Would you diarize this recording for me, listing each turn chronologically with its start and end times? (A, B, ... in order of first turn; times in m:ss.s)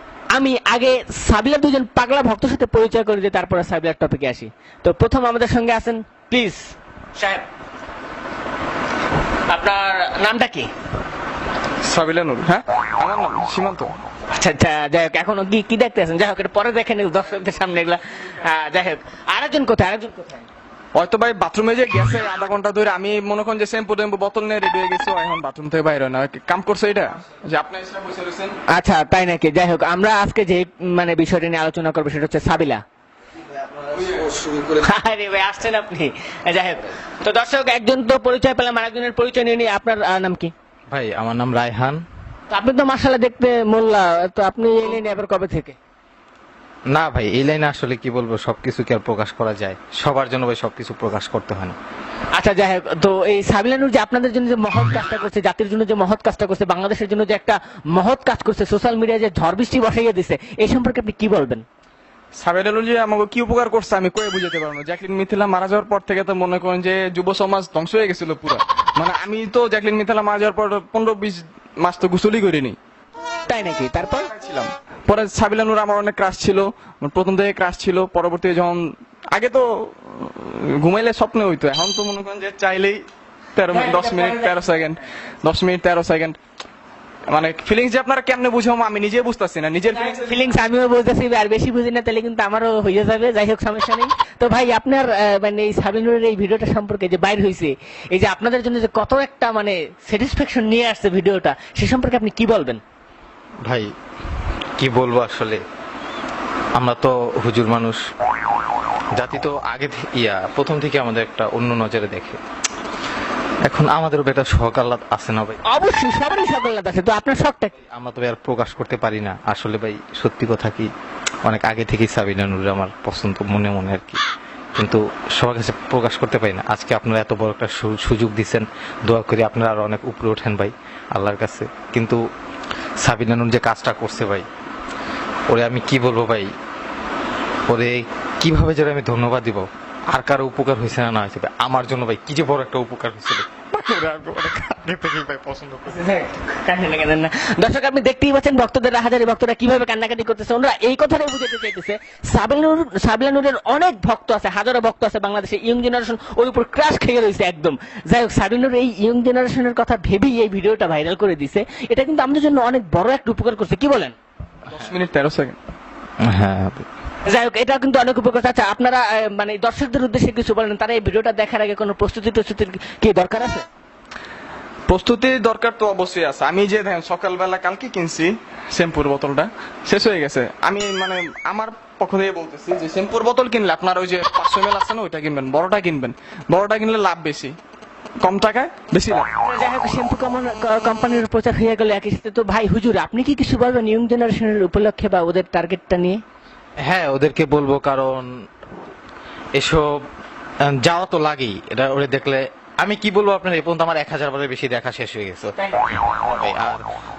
0:00.3-0:07.5 A
0:09.5-0:10.7 A
0:11.8-0:13.9 B
0:14.3-0:20.5 A
0:20.9-0:28.6 B
0:28.7-0:32.8 A
0:33.9-0:34.4 B
0:34.3-0:34.6 C
0:34.6-0:40.5 A
0:40.9-0:42.0 C
0:42.5-0:45.8 A
0:46.9-0:51.8 C
0:52.3-1:01.6 A
1:02.3-1:12.8 B
1:13.5-1:14.3 A
1:14.3-1:23.0 B
1:23.5-1:26.4 B
1:23.7-1:24.6 A
1:27.3-1:30.4 B
1:29.9-1:42.8 A
1:43.6-1:43.9 C
1:44.8-1:45.6 C
1:46.8-1:48.0 C
1:49.1-1:52.4 C
1:53.6-1:55.6 C
1:55.6-1:57.7 A
1:57.8-2:00.9 C
2:01.4-2:04.2 C
2:04.7-2:12.2 C
2:13.0-2:14.5 C
2:15.5-2:16.5 C
2:17.7-2:26.0 C
2:25.8-2:44.1 A
2:44.7-2:45.6 B
2:46.2-2:46.8 C
2:47.2-2:53.6 A
2:54.9-3:07.6 B
3:08.2-3:09.3 B
3:09.4-3:16.2 A
3:16.8-3:18.3 C
3:19.6-3:20.0 C
3:20.6-3:26.8 C